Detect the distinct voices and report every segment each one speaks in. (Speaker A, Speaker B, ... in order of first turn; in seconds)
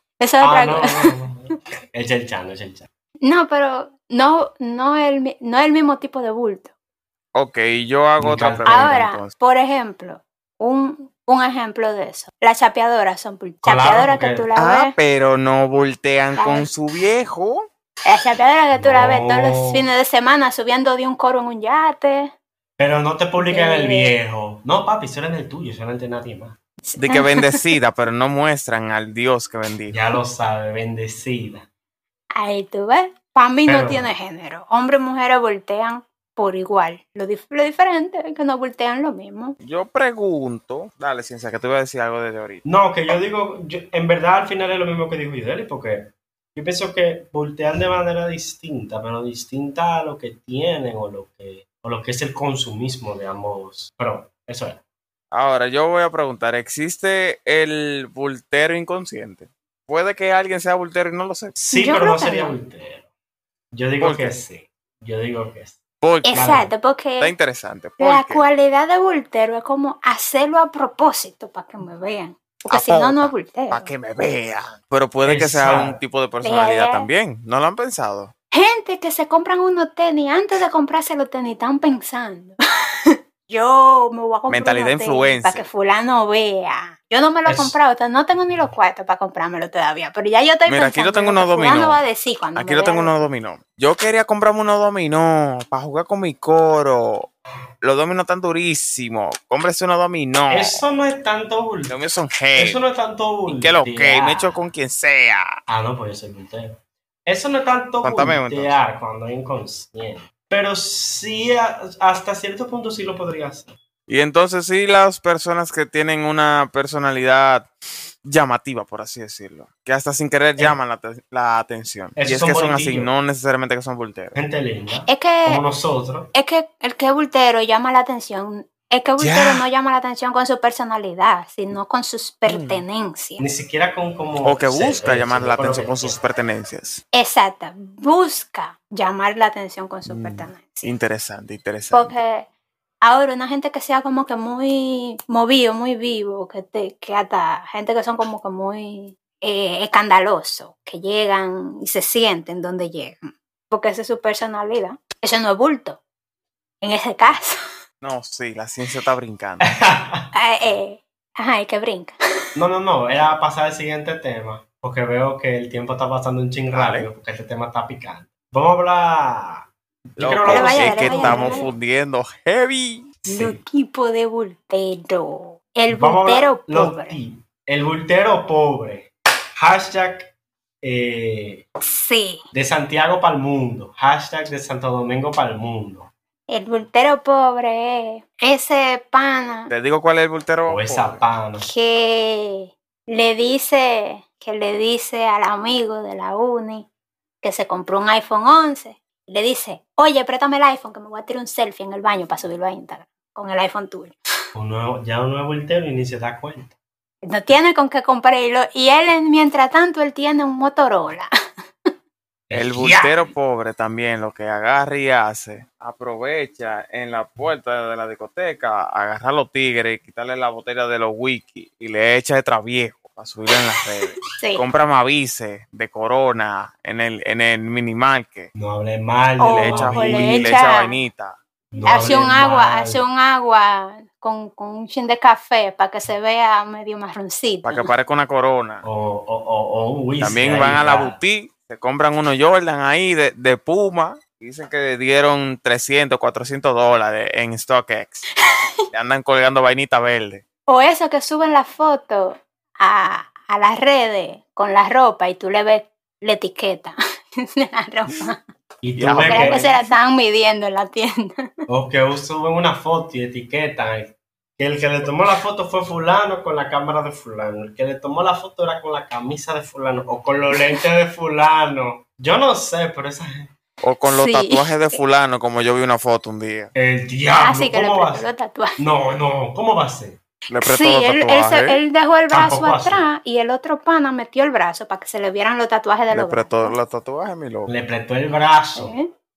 Speaker A: 0.2-1.1, 3.2-6.7, 8.7-14.9, 16.4-16.7, 18.0-22.3, 23.4-24.1, 26.9-27.6, 32.4-39.6, 61.7-62.6, 66.2-67.3, 68.0-73.9, 76.4-77.1, 78.5-93.1, 125.1-125.6, 126.3-133.4, 137.1-140.9, 141.9-142.5, 143.0-156.0, 156.8-157.6, 160.3-162.2, 170.4-171.7, 173.3-177.2, 181.8-182.4, 186.5-189.7, 191.6-196.9, 197.4-204.2, 207.2-211.3, 224.4-224.6, 229.4-231.0, 231.8-237.9, 250.7-258.4, 259.2-261.5, 274.1-275.0, 277.4-278.8, 280.6-286.7, 288.8-289.1
Speaker B: 0.4-2.9, 8.2-9.0, 13.6-14.5, 18.8-19.9, 22.8-26.6, 29.9-31.7, 33.6-34.1, 42.6-54.8, 61.6-63.1, 63.7-65.8, 66.3-66.7, 75.2-76.0, 87.5-87.8, 100.5-102.0, 102.5-104.7, 105.7-113.8, 122.2-123.1, 124.3-126.3, 133.4-136.2, 159.6-160.3, 162.6-171.7, 173.3-173.6, 175.9-181.6, 182.5-186.1, 190.7-191.7, 204.6-206.7, 212.5-213.3, 228.5-230.6, 231.7-233.0, 238.8-241.2, 258.8-259.7, 261.7-273.5, 276.7-278.2, 278.8-280.2, 282.3-283.1, 287.7-288.9
Speaker C: 7.3-9.3, 14.6-17.6, 27.0-30.0, 39.6-42.6, 55.3-61.5, 64.0-64.4, 66.0-66.5, 67.2-68.4, 72.7-78.3, 84.5-85.7, 90.7-92.0, 92.5-97.3, 97.8-100.8, 101.9-102.8, 103.5-105.5, 108.0-108.8, 114.1-117.7, 118.2-124.4, 129.2-129.7, 132.4-132.8, 134.4-137.0, 140.1-142.1, 158.0-159.7, 166.7-167.1, 170.2-173.2, 189.7-191.2, 212.5-228.5, 229.5-231.4, 237.6-238.8, 240.2-248.2, 248.9-250.4, 259.0-259.7, 273.8-276.7, 280.5-281.8, 286.1-287.7